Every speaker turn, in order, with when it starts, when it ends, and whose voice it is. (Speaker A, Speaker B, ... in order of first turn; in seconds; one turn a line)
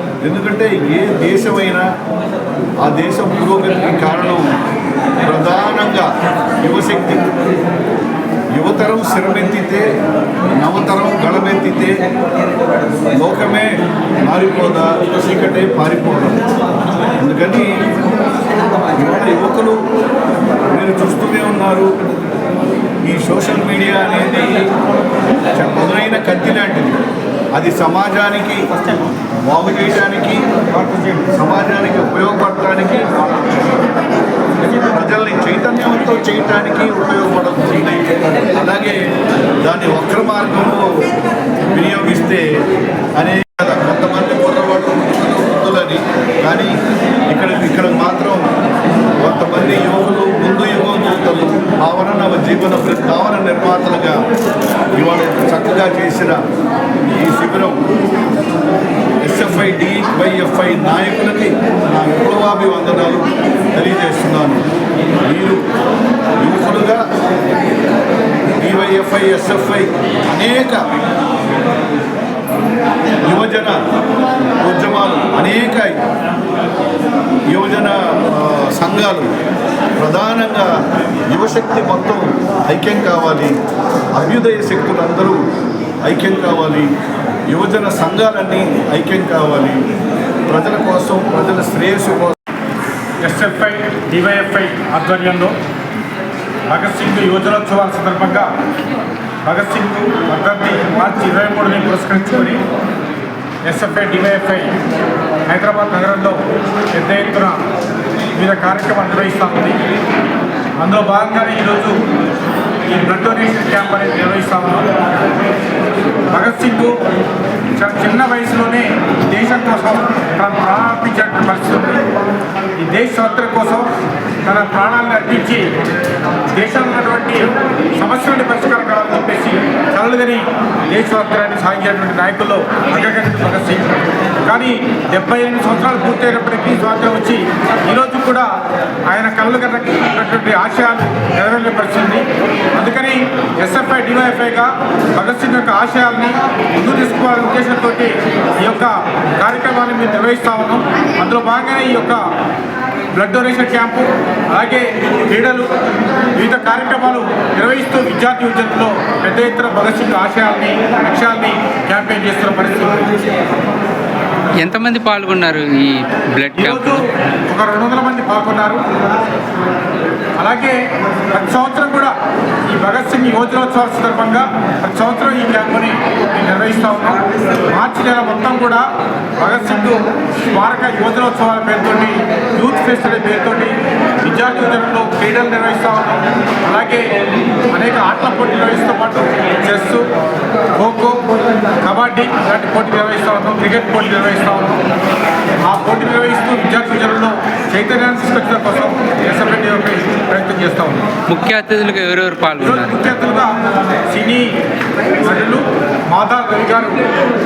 Speaker A: 0.2-1.9
Speaker A: 2.8-4.4
Speaker A: 5.2-7.3
Speaker A: 8.6-9.9
Speaker A: 10.6-11.9
Speaker A: 13.1-16.4
Speaker A: 17.2-17.7
Speaker A: 18.9-19.8
Speaker A: 20.7-21.9
Speaker A: 23.0-24.7
Speaker A: 25.5-26.9
Speaker A: 27.5-28.6
Speaker A: 29.5-30.5
Speaker B: 30.7-31.2
Speaker A: 31.3-33.6
Speaker A: 34.8-39.0
Speaker A: 39.6-40.8
Speaker A: 41.7-42.4
Speaker A: 43.2-46.7
Speaker A: 47.3-48.4
Speaker A: 49.2-54.2
Speaker A: 55.0-56.4
Speaker A: 57.1-57.8
Speaker A: 59.2-64.6
Speaker A: 65.2-65.6
Speaker A: 66.4-67.0
Speaker A: 68.6-70.8
Speaker A: 73.2-73.8
Speaker A: 74.6-76.0
Speaker A: 77.5-79.3
Speaker A: 80.0-80.7
Speaker A: 81.3-83.5
Speaker A: 84.1-85.4
Speaker A: 86.0-86.9
Speaker A: 87.5-89.8
Speaker A: 90.5-92.4
Speaker B: 93.2-95.5
Speaker B: 96.7-98.5
Speaker B: 99.5-102.6
Speaker B: 103.6-104.7
Speaker B: 105.5-106.4
Speaker B: 106.9-107.6
Speaker B: 108.3-109.8
Speaker B: 110.8-112.0
Speaker B: 112.9-115.2
Speaker B: 116.3-117.0
Speaker B: 117.8-121.9
Speaker B: 122.8-123.9
Speaker B: 124.4-125.7
Speaker B: 126.5-138.5
Speaker B: 139.1-142.2
Speaker B: 142.8-152.2
Speaker B: 153.1-155.7
Speaker B: 156.3-163.1
Speaker C: 164.6-167.0
Speaker B: 166.5-168.8
Speaker B: 170.4-170.8
Speaker B: 171.3-172.1
Speaker B: 172.7-178.8
Speaker B: 179.4-187.0
Speaker B: 187.7-190.0
Speaker B: 190.8-191.2
Speaker B: 191.8-194.8
Speaker B: 195.6-201.1
Speaker C: 201.3-203.1
Speaker B: 202.6-203.5
Speaker B: 204.1-204.5
Speaker B: 205.2-207.0